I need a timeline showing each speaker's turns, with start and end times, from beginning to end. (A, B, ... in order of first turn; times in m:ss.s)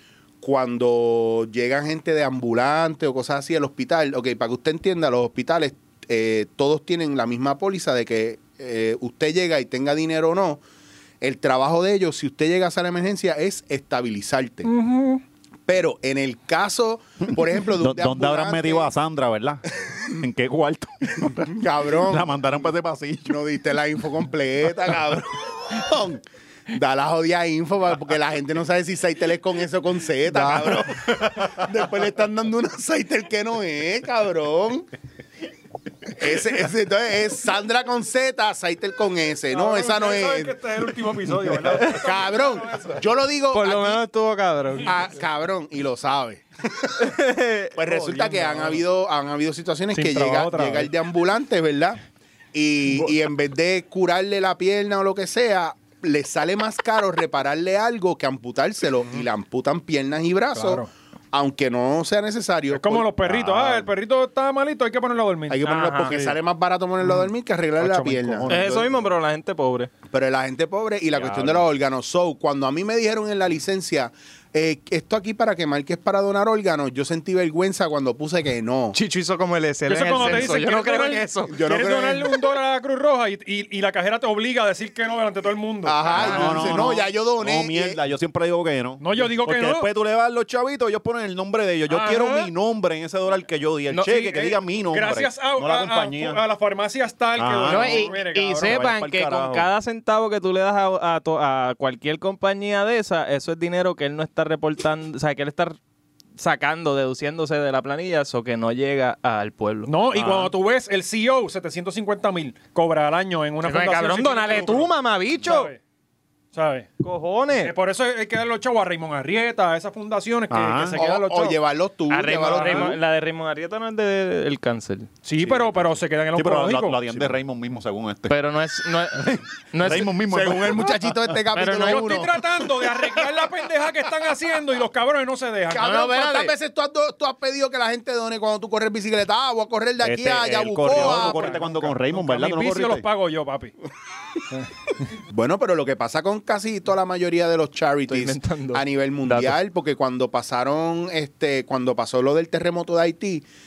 0:00.4-0:10.6 A
0:11.2-0:14.7 A
0:14.6-0:15.2 B
0:15.7-0:18.9 A
0:17.8-0:23.4 C
0:19.9-0:20.2 A
0:21.3-0:22.3 A
0:23.3-0:34.9 A
0:30.4-0:31.7 C
0:36.0-0:40.6 A
0:39.5-0:43.0 B
0:41.7-0:44.0 A
0:43.5-0:44.9 D
0:44.8-0:47.1 A
0:47.0-0:48.3 D
0:47.7-0:52.0 A
0:47.9-0:48.8 B
0:49.9-0:50.9 B
0:52.5-1:03.9 A
1:00.5-1:00.9 B
1:02.7-1:06.4 B
1:05.5-1:08.9 A
1:05.6-1:06.1 D
1:07.0-1:08.6 B
1:08.5-1:09.9 D
1:10.1-1:19.0 A
1:11.1-1:11.6 C
1:18.9-1:21.5 D
1:19.9-1:26.8 B
1:21.5-1:22.4 A
1:25.8-1:28.0 A
1:26.1-1:36.4 C
1:29.0-1:29.9 B
1:31.9-1:32.5 B
1:33.9-1:34.5 D
1:34.9-1:38.8 B
1:37.4-1:39.7 C
1:37.7-1:45.8 D
1:46.4-1:49.9 D
1:49.9-1:55.8 B
1:50.1-1:50.5 C
1:53.6-1:55.7 D
1:56.5-1:56.9 B
1:57.0-1:57.7 D
1:57.6-2:01.6 B
2:00.5-2:01.0 C
2:00.9-2:03.0 A
2:02.1-2:05.1 D
2:02.4-2:02.9 B
2:05.2-2:07.3 B
2:05.4-2:05.7 C
2:06.3-2:08.4 C
2:08.3-2:10.1 D
2:09.1-2:11.4 C
2:10.2-2:12.4 A
2:11.5-2:12.1 D
2:11.8-2:16.0 B
2:15.7-2:21.6 A
2:15.7-2:16.5 D
2:20.0-2:23.0 C
2:20.9-2:23.7 B
2:25.3-2:33.4 A
2:28.1-2:28.8 D
2:29.2-2:29.6 C